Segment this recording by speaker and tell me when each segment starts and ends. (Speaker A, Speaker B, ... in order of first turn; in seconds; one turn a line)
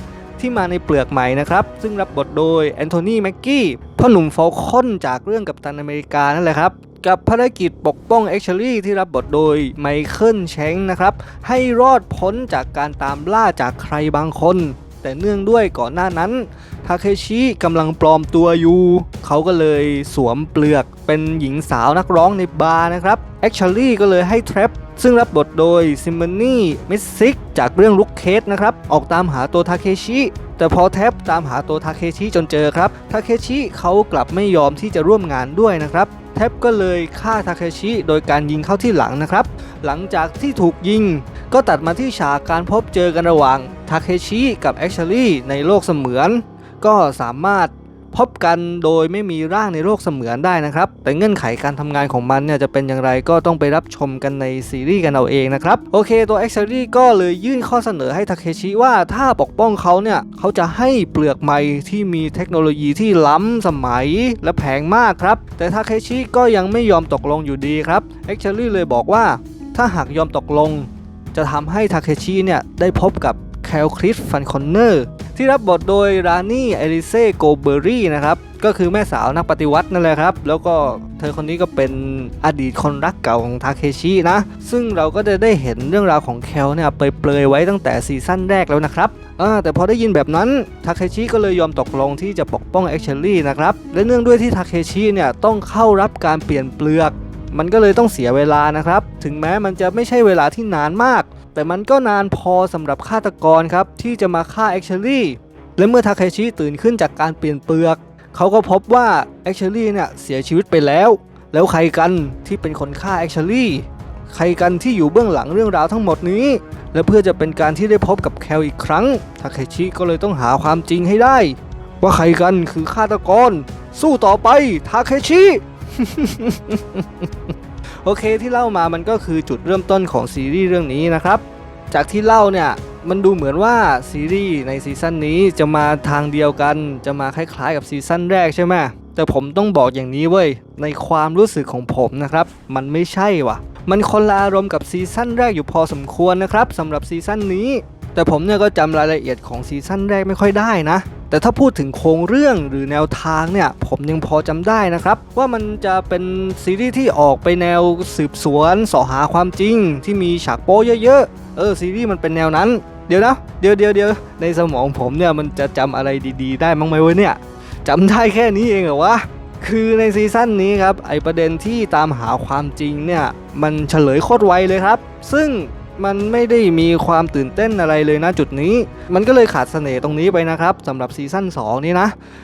Speaker A: 0.4-182.2